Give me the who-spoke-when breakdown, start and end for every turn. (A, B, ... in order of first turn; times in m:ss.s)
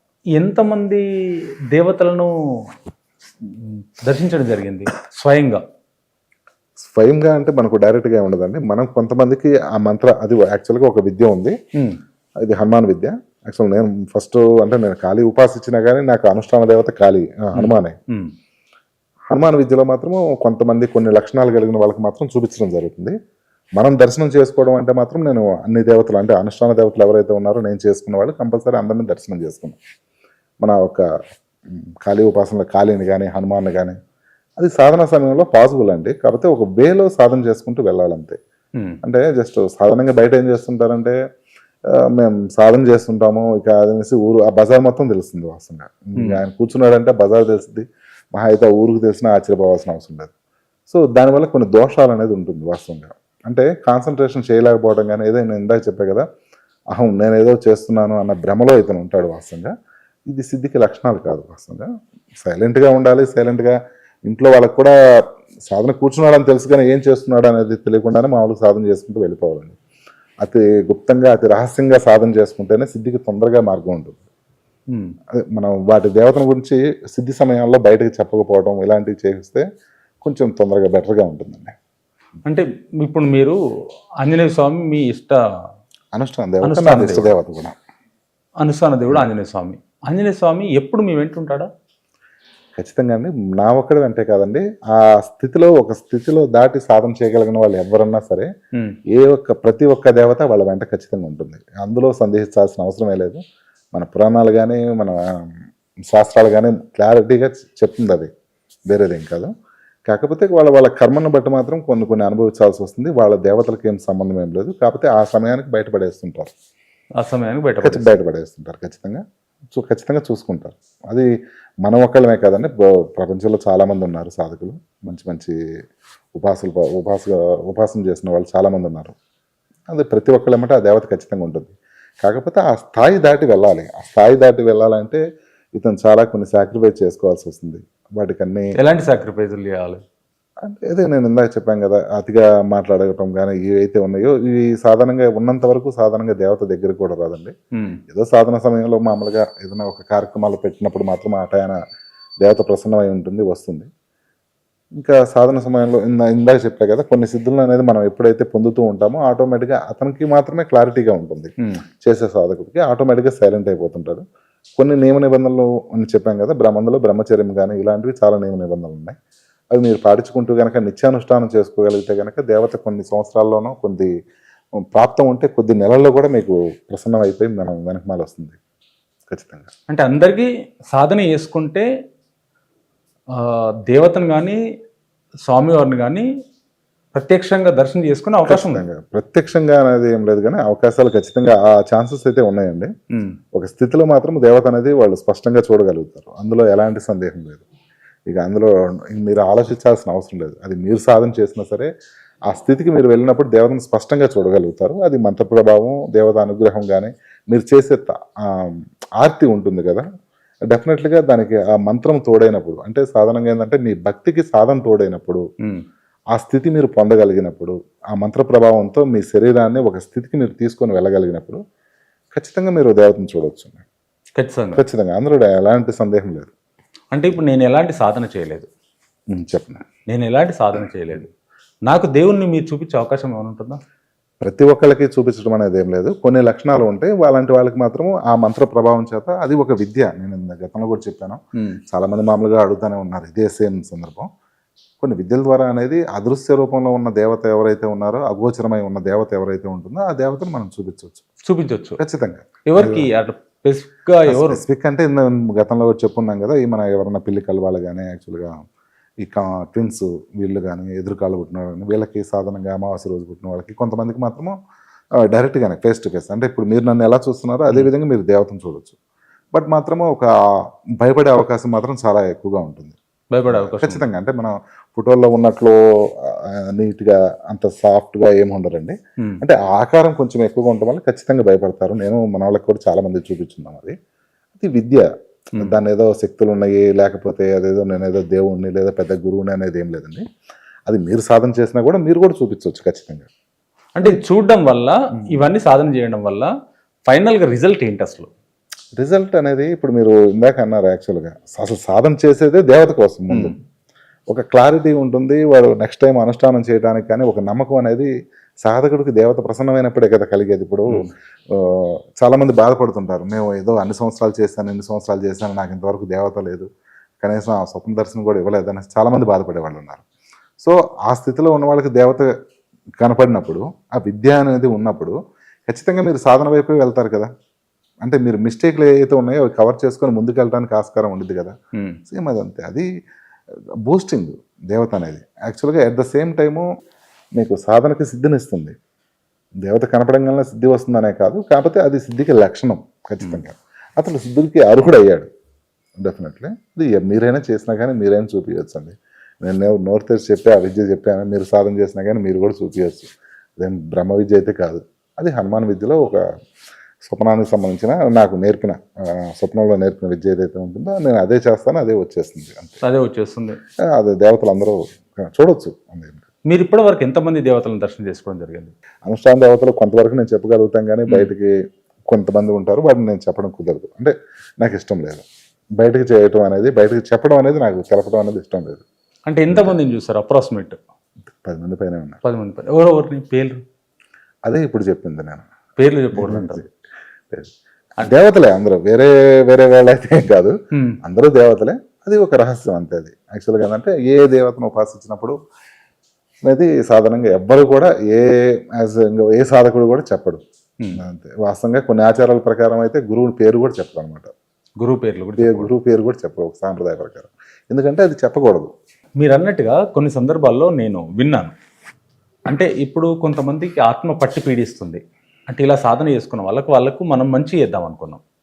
0:00.4-0:01.0 A
0:01.7-0:02.3 A
0:03.5-0:05.6 A
0:06.8-0:11.5 B
0:12.4-0:18.0 B
0:17.5-0:18.3 A
0:19.3-0:23.1 B
0:23.8-0:29.8 B
0:30.6-0:31.1 B
0:31.7-0:34.0 B
0:34.6-0:38.4 B
0:39.0-0:41.2 B
0:42.1-0:50.3 B
0:50.9-0:56.2 B
0:56.9-0:59.7 B
1:00.3-1:01.9 B
1:02.4-1:04.9 B
1:05.7-1:09.8 B
1:10.4-1:14.2 B
1:14.9-1:15.2 A
1:15.3-1:19.6 B
1:20.2-1:21.8 B
1:22.4-1:23.6 A
1:24.2-1:25.4 A
1:26.1-1:27.8 B
1:26.6-1:27.4 A
1:28.6-1:31.7 A
1:32.8-1:38.5 B
1:39.1-1:43.4 B
1:43.9-1:45.6 B
1:46.1-1:48.3 B
1:48.9-1:49.5 B
1:50.1-1:56.5 B
1:57.2-1:58.2 A
1:57.8-1:59.2 B
1:59.8-2:01.3 B
2:01.8-2:05.6 B
2:06.4-2:09.2 B
2:09.9-2:15.2 B
2:15.8-2:18.7 B
2:18.8-2:20.0 A
2:20.6-2:27.5 B
2:27.8-2:28.0 A
2:28.1-2:31.8 B
2:32.4-2:33.9 B
2:35.0-2:44.2 B
2:44.8-2:49.2 B
2:49.7-2:54.1 B
2:54.9-2:58.6 B
2:59.3-2:59.7 B
2:59.9-3:01.8 A
3:03.3-3:04.6 A
3:05.5-3:06.2 A
3:07.1-3:08.8 A
3:08.5-3:12.9 B
3:13.5-3:17.6 B
3:18.3-3:21.9 B
3:22.5-3:30.0 B
3:30.7-3:35.4 B
3:36.3-3:41.6 B
3:42.4-3:43.8 B
3:44.4-3:44.8 A
3:44.8-3:46.5 B
3:47.1-3:48.7 A
3:49.3-3:49.8 B
3:50.1-3:51.3 A
3:51.8-3:53.8 A
3:54.4-4:04.3 B
4:05.0-4:11.2 B
4:11.4-4:12.0 A
4:12.0-4:13.1 B
4:12.7-4:14.6 A
4:14.3-4:18.5 B
4:19.2-4:24.5 B
4:25.3-4:29.0 B
4:29.5-4:30.3 B
4:31.0-4:33.0 B
4:33.3-4:34.0 A
4:33.5-4:43.9 B
4:44.6-4:50.2 B
4:50.9-4:53.3 B
4:54.0-4:56.5 A
4:57.1-4:58.3 A
4:59.0-5:03.6 B
5:04.3-5:08.1 B
5:08.6-5:16.7 B
5:17.2-5:20.0 B
5:20.6-5:22.3 B
5:23.0-5:25.1 B
5:25.7-5:27.3 B
5:28.0-5:31.5 B
5:32.1-5:32.8 B
5:33.8-5:36.6 B
5:37.4-5:38.7 B
5:39.6-5:45.3 B
5:46.0-5:56.2 B
5:57.0-6:02.8 B
6:02.8-6:03.6 A
6:03.9-6:06.2 B
6:06.5-6:08.7 A
6:09.0-6:11.5 B
6:12.1-6:15.2 B
6:15.8-6:18.8 B
6:19.3-6:20.8 A
6:19.5-6:19.8 B
6:21.3-6:22.2 B
6:22.2-6:23.6 A
6:24.4-6:25.4 B
6:25.8-6:26.6 A
6:26.1-6:26.7 B
6:27.3-6:35.3 B
6:30.7-6:31.0 A
6:36.4-6:44.3 B
6:44.8-6:45.7 A
6:45.4-6:48.7 B
6:49.2-6:51.5 A
6:52.5-6:58.2 A